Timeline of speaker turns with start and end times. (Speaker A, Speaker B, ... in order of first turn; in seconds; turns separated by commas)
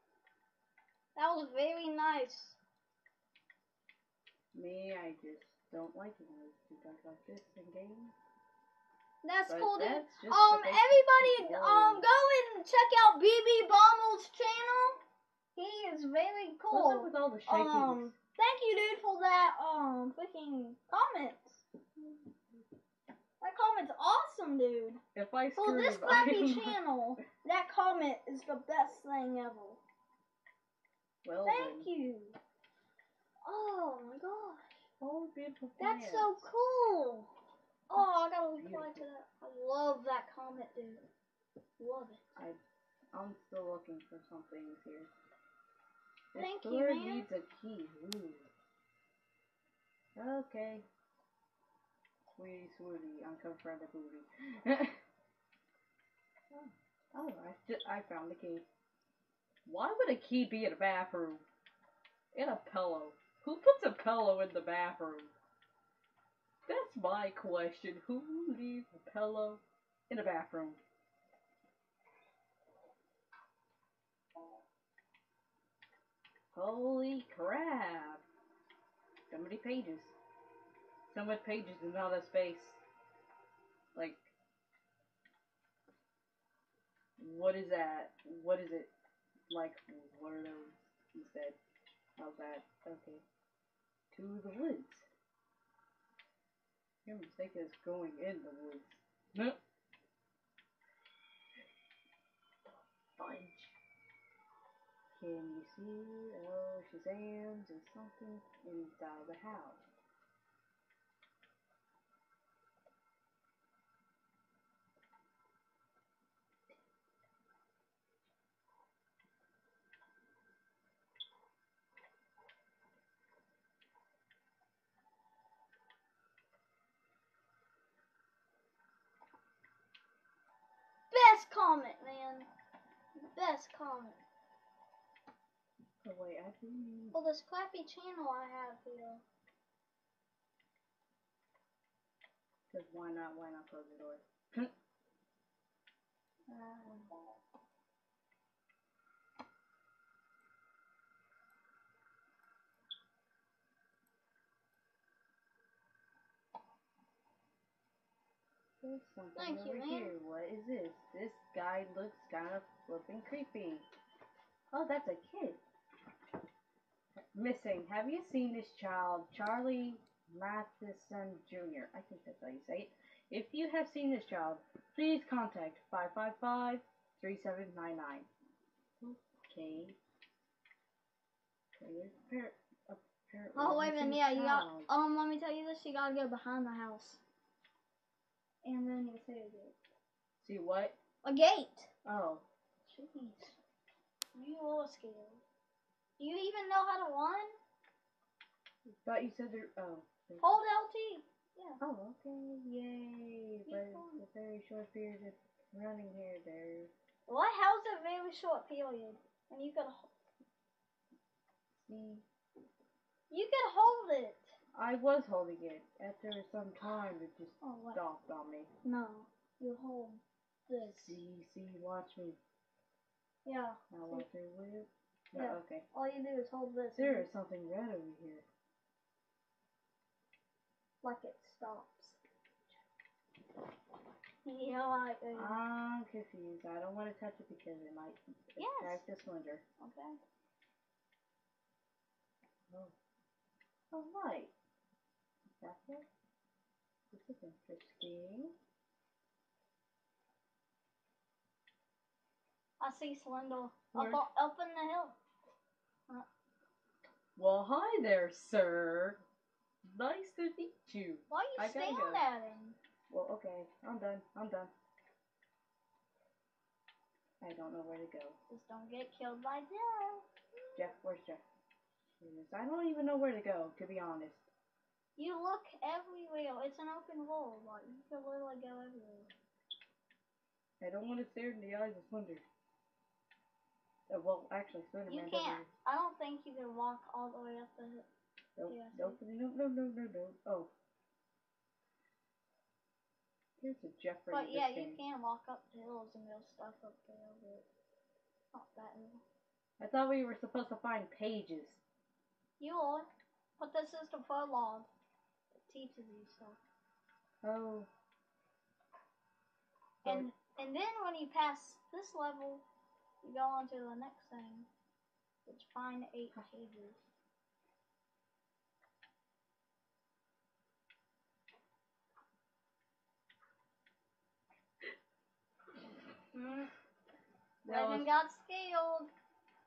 Speaker A: 1.1-2.6, Speaker B: 4.5-8.1, Speaker A: 9.2-15.0, Speaker B: 9.5-12.1, Speaker A: 15.5-21.6, Speaker B: 16.7-18.1, Speaker A: 23.4-25.0, Speaker B: 25.1-26.8, Speaker A: 25.6-29.8, Speaker B: 31.2-31.9, Speaker A: 31.4-32.4, Speaker A: 33.4-34.7, Speaker B: 35.0-36.5, Speaker A: 35.8-37.3, Speaker A: 37.9-41.0, Speaker B: 38.6-39.1, Speaker A: 41.8-42.2, Speaker B: 43.1-45.1, Speaker B: 46.3-48.5, Speaker A: 46.4-47.3, Speaker B: 50.1-50.9, Speaker B: 52.3-55.0, Speaker B: 56.5-58.6, Speaker B: 59.6-61.4, Speaker B: 62.3-65.3, Speaker B: 66.7-70.8, Speaker B: 76.5-78.2, Speaker B: 79.3-80.1, Speaker B: 81.1-82.8, Speaker B: 83.9-84.3, Speaker B: 87.2-88.9, Speaker B: 89.5-91.6, Speaker B: 92.2-93.2, Speaker B: 94.1-95.1, Speaker B: 97.0-99.6, Speaker B: 103.2-103.8, Speaker B: 105.1-109.8, Speaker A: 131.1-132.5, Speaker A: 133.2-134.2, Speaker B: 136.0-137.2, Speaker A: 137.1-139.2, Speaker B: 142.7-144.7, Speaker B: 146.5-147.2, Speaker B: 158.8-163.8, Speaker A: 159.3-160.1, Speaker B: 164.7-165.6, Speaker B: 167.3-178.3, Speaker B: 179.0-180.0, Speaker B: 181.8-184.9, Speaker A: 183.5-187.2, Speaker A: 188.6-189.7, Speaker B: 190.4-190.9, Speaker A: 191.2-191.9, Speaker B: 192.0-192.4, Speaker A: 192.8-193.6, Speaker A: 194.3-195.4, Speaker A: 196.2-197.6, Speaker B: 199.0-200.6, Speaker A: 200.4-201.8, Speaker B: 201.8-206.9, Speaker A: 203.7-204.2, Speaker A: 207.3-210.1, Speaker B: 211.7-212.2, Speaker A: 213.3-214.5, Speaker B: 214.7-218.7, Speaker A: 217.6-218.0, Speaker A: 218.8-221.2, Speaker B: 220.8-222.4, Speaker A: 223.4-224.2, Speaker B: 223.9-225.8, Speaker A: 225.3-227.3, Speaker B: 226.9-228.4, Speaker A: 231.0-232.2, Speaker A: 234.4-235.6, Speaker B: 235.3-239.6, Speaker A: 238.6-239.0, Speaker A: 239.8-240.2, Speaker B: 243.9-244.5, Speaker B: 245.6-246.1, Speaker B: 247.1-248.5, Speaker A: 252.8-255.2, Speaker B: 253.9-254.2, Speaker B: 257.4-259.2, Speaker B: 259.8-262.2, Speaker A: 261.3-262.8, Speaker B: 263.1-264.7, Speaker B: 267.4-268.4, Speaker A: 268.5-270.2, Speaker B: 270.7-271.4, Speaker B: 272.2-274.5, Speaker A: 275.1-279.3, Speaker B: 280.8-282.4, Speaker B: 284.1-285.7, Speaker A: 285.1-288.1, Speaker B: 288.6-290.7, Speaker A: 288.7-289.2, Speaker B: 293.6-295.0, Speaker A: 294.3-297.6, Speaker A: 298.5-299.2, Speaker B: 299.8-301.8, Speaker A: 302.6-303.1, Speaker A: 303.6-304.9, Speaker A: 305.7-306.6, Speaker B: 307.4-307.9, Speaker A: 310.0-312.6, Speaker A: 313.2-314.7, Speaker A: 315.4-317.0, Speaker A: 326.3-326.7, Speaker B: 327.6-328.1, Speaker A: 327.6-329.1